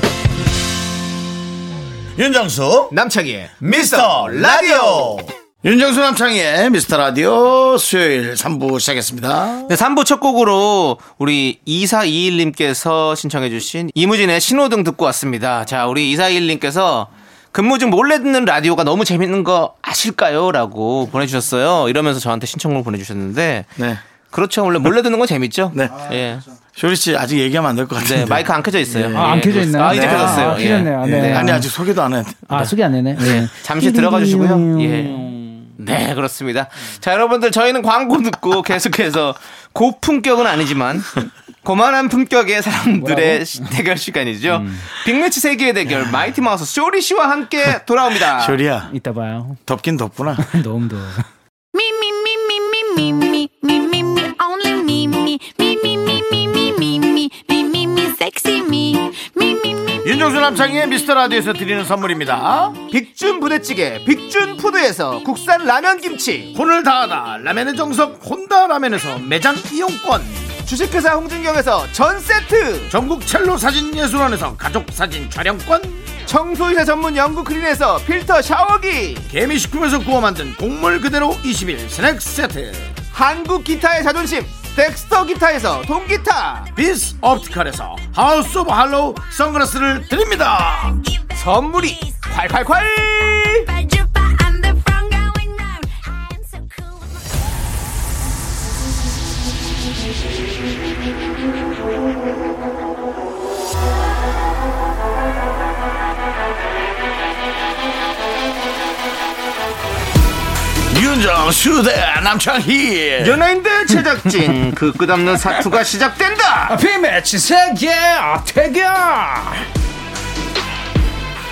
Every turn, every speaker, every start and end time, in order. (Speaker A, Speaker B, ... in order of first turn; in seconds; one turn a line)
Speaker A: 2.1-2.9
Speaker B: 2.9-5.2
Speaker A: 3.6-9.7
Speaker B: 9.7-23.7
Speaker A: 23.8-24.0
Speaker B: 24.3-26.4
Speaker A: 25.7-29.4
Speaker B: 28.0-31.6
Speaker C: 29.1-31.7
Speaker A: 29.9-32.7
Speaker C: 32.5-35.7
Speaker B: 33.2-48.6
Speaker C: 43.0-43.7
Speaker C: 44.5-44.9
Speaker A: 48.2-48.9
Speaker C: 48.9-49.6
Speaker A: 49.6-50.5
Speaker C: 50.4-51.2
Speaker D: 51.8-60.0
Speaker A: 60.0-62.8
Speaker B: 62.9-66.5
Speaker A: 66.5-70.5
Speaker B: 70.6-72.9
Speaker A: 72.9-76.0
Speaker B: 76.2-79.3
Speaker A: 79.3-82.9
Speaker B: 83.1-86.7
Speaker A: 86.7-91.0
Speaker B: 91.3-93.7
Speaker D: 93.7-96.9
Speaker A: 110.9-113.4
Speaker B: 113.2-116.8
Speaker C: 116.7-119.7